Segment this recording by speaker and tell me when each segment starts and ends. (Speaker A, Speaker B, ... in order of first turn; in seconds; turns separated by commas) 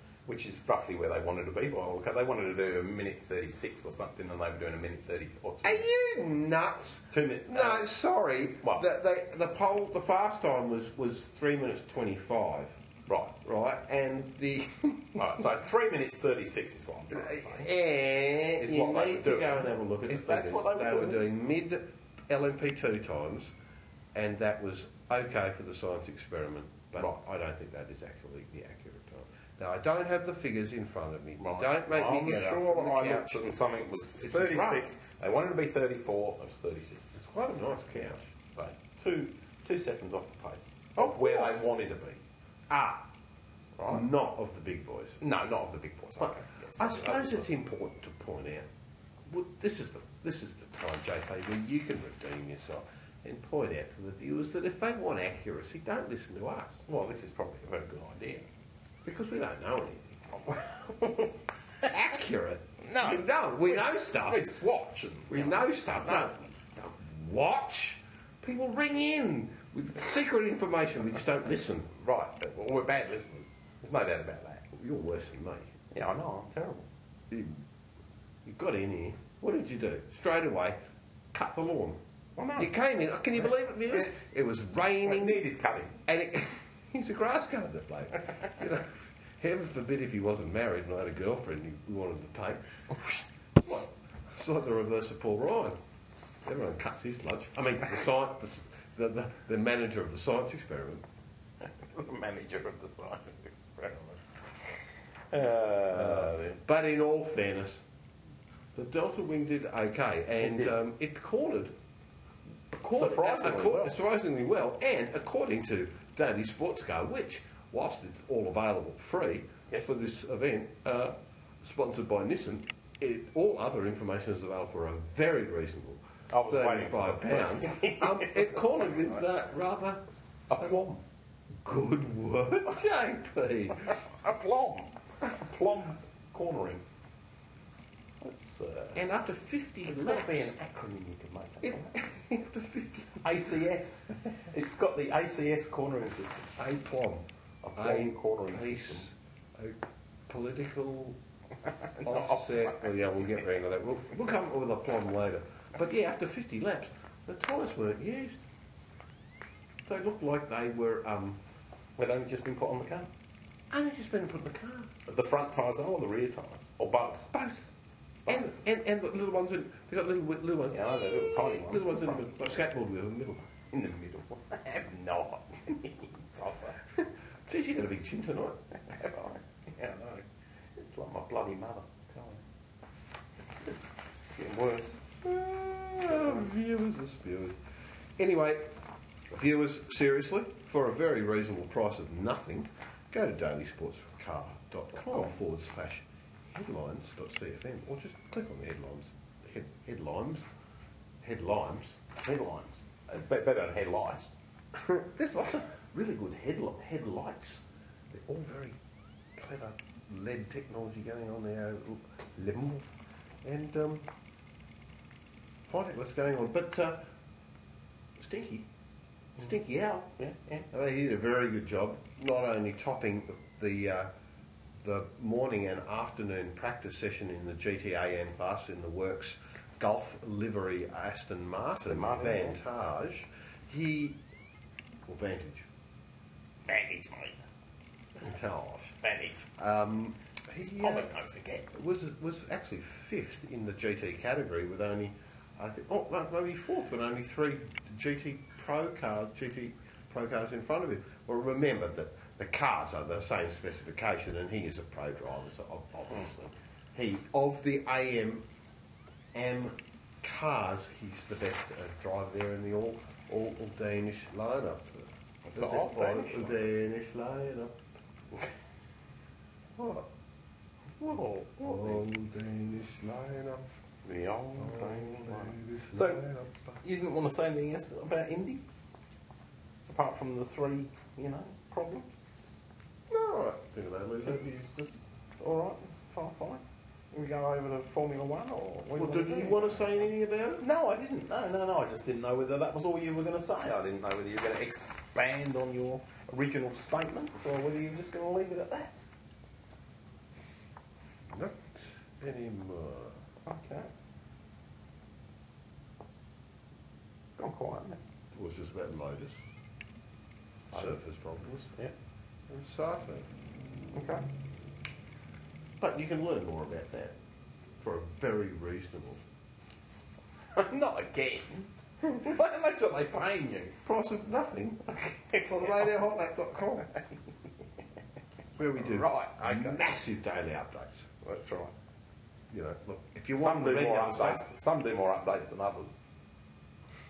Speaker A: 0.3-5.9, Speaker B: 5.6-12.8, Speaker A: 7.1-7.9, Speaker A: 13.1-13.3, Speaker B: 13.4-15.4, Speaker A: 15.2-17.7, Speaker B: 17.1-23.5, Speaker A: 18.6-21.3, Speaker B: 24.1-33.5, Speaker A: 31.4-37.0, Speaker B: 34.2-34.9, Speaker B: 37.1-38.3, Speaker A: 38.5-42.2, Speaker B: 41.0-41.7, Speaker B: 42.7-43.1, Speaker A: 43.8-44.1, Speaker B: 43.9-45.2, Speaker A: 45.2-47.5, Speaker B: 46.2-48.7, Speaker B: 49.3-56.9, Speaker A: 56.9-58.5, Speaker B: 59.0-60.2, Speaker A: 60.4-61.9, Speaker B: 61.8-64.5, Speaker A: 62.8-66.3, Speaker B: 65.3-71.9, Speaker A: 71.9-74.6, Speaker B: 74.7-75.7, Speaker A: 75.9-76.9, Speaker B: 77.3-77.6, Speaker B: 78.5-80.8, Speaker B: 81.3-82.0, Speaker A: 82.4-82.7, Speaker B: 82.6-85.4, Speaker A: 85.0-86.0, Speaker B: 86.1-95.8, Speaker B: 96.5-101.0, Speaker A: 101.8-104.2, Speaker A: 105.3-106.6, Speaker B: 105.9-107.8, Speaker B: 108.7-111.8, Speaker A: 110.4-110.7, Speaker B: 112.7-130.0, Speaker A: 112.9-114.0, Speaker A: 119.7-120.0, Speaker A: 126.3-128.6, Speaker A: 130.5-131.0, Speaker B: 131.6-134.0, Speaker A: 133.8-136.8, Speaker A: 138.2-139.0, Speaker B: 138.9-140.6, Speaker A: 139.9-142.0, Speaker B: 141.6-143.5, Speaker A: 143.2-146.5, Speaker B: 146.6-147.2, Speaker A: 147.6-149.1, Speaker B: 147.8-151.2, Speaker A: 151.7-152.9, Speaker B: 152.0-158.4, Speaker B: 159.9-161.4, Speaker A: 162.0-163.1, Speaker B: 163.7-164.9, Speaker A: 165.1-167.4, Speaker B: 167.3-167.6, Speaker A: 168.3-168.6, Speaker B: 168.3-173.5, Speaker A: 170.7-172.4, Speaker A: 173.7-176.8, Speaker B: 177.0-178.6, Speaker A: 178.8-182.4, Speaker A: 184.3-185.0, Speaker B: 185.2-187.6, Speaker B: 188.2-188.7, Speaker B: 189.3-200.5, Speaker B: 201.2-202.0, Speaker A: 202.2-204.3, Speaker B: 204.7-208.8, Speaker B: 209.4-212.9, Speaker B: 213.4-214.1, Speaker B: 215.7-217.1, Speaker B: 218.2-218.7, Speaker B: 219.4-220.1, Speaker A: 220.2-220.7, Speaker B: 220.7-224.1, Speaker B: 224.8-234.2, Speaker A: 231.8-232.6, Speaker B: 235.1-235.7, Speaker A: 236.7-237.4, Speaker B: 238.2-239.0, Speaker A: 239.0-239.4, Speaker B: 239.6-241.1, Speaker A: 240.8-241.7, Speaker B: 241.7-258.4, Speaker B: 259.3-267.8, Speaker A: 265.4-266.6, Speaker B: 269.8-270.1, Speaker A: 271.0-272.1, Speaker B: 271.6-273.7, Speaker A: 274.1-276.2, Speaker B: 274.6-276.8, Speaker A: 276.8-278.6, Speaker A: 279.9-282.1, Speaker B: 283.1-284.7, Speaker A: 284.3-290.0, Speaker B: 288.9-290.6, Speaker A: 290.6-298.9, Speaker B: 301.3-303.2, Speaker A: 303.5-303.9, Speaker A: 307.4-308.0, Speaker B: 308.3-309.4, Speaker B: 310.7-311.7, Speaker A: 310.7-311.0, Speaker B: 312.5-313.3, Speaker A: 313.9-314.2, Speaker B: 315.8-317.1, Speaker B: 317.8-319.2, Speaker A: 320.5-323.8, Speaker B: 323.8-326.9, Speaker A: 324.9-325.9, Speaker B: 328.6-331.1, Speaker A: 328.8-329.8, Speaker A: 331.2-331.7, Speaker B: 332.5-334.5, Speaker A: 333.3-336.0